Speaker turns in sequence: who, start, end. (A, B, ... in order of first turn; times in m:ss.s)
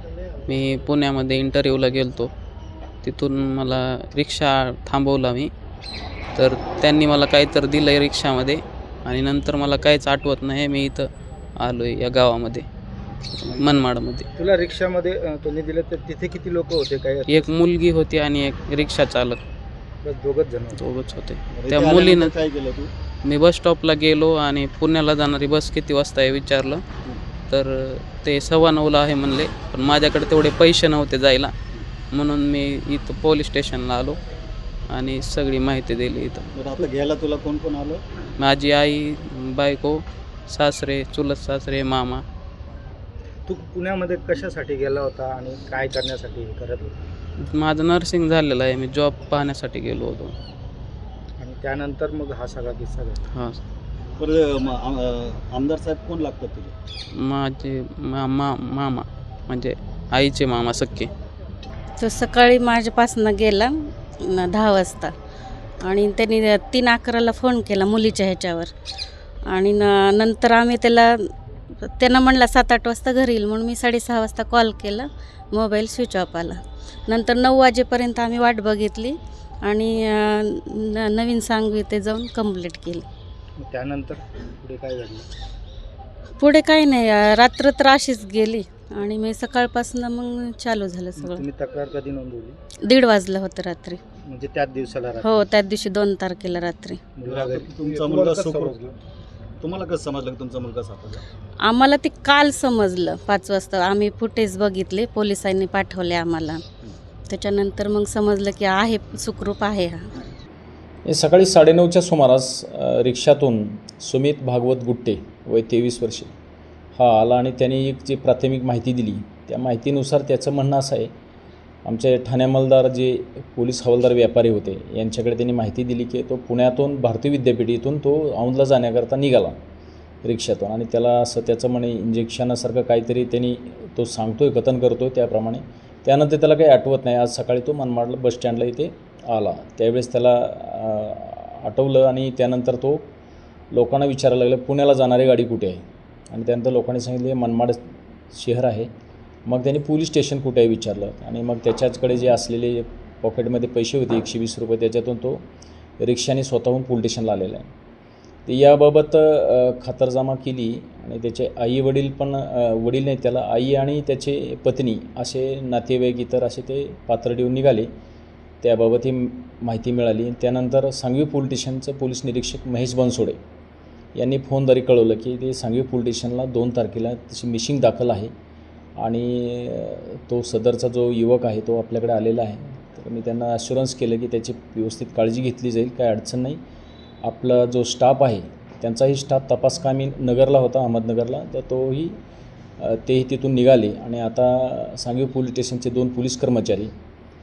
0:00.4-0:02.3 A
0:03.0-0:05.5 A
0:06.4-0:11.1 A
0:11.6-0:12.7 A
0:13.3-0:14.3 A
0:14.4-0:17.5 B
0:17.3-0:19.4 A
0:20.0-0:20.8 B
0:20.8-0:22.3 A
0:21.5-0:22.9 C
0:23.2-0:26.8 A
0:27.5-0:31.5 A
0:32.1-0:34.2 A
0:34.9-0:36.5 A
0:36.5-0:38.0 C
0:38.4-0:42.2 A
0:43.5-0:47.1 B
0:47.4-0:50.3 A
0:51.4-0:53.2 B
0:53.3-0:53.6 A
0:54.2-0:56.7 C
0:57.1-1:01.1 A
1:02.0-1:05.1 D
1:05.8-1:08.7 D
1:09.5-1:11.2 D
1:11.8-1:23.0 D
1:23.6-1:25.3 B
1:26.4-1:31.4 D
1:31.2-1:32.6 B
1:32.9-1:34.0 D
1:34.2-1:35.4 B
1:35.2-1:37.0 D
1:37.2-1:39.0 B
1:37.3-1:38.8 C
1:39.6-1:41.2 C
1:41.6-1:46.6 D
1:47.3-1:50.1 D
1:51.1-1:56.3 E
1:57.0-2:01.1 E
2:01.8-2:09.6 E
2:10.2-2:23.1 E
2:23.7-2:28.9 E
2:29.5-2:35.4 E
2:36.0-2:37.7 E
2:38.5-2:47.9 E
2:48.6-2:53.4 E
2:54.2-2:58.3 E
2:59.0-3:06.6 E
3:07.2-3:12.2 E
3:12.8-3:16.9 E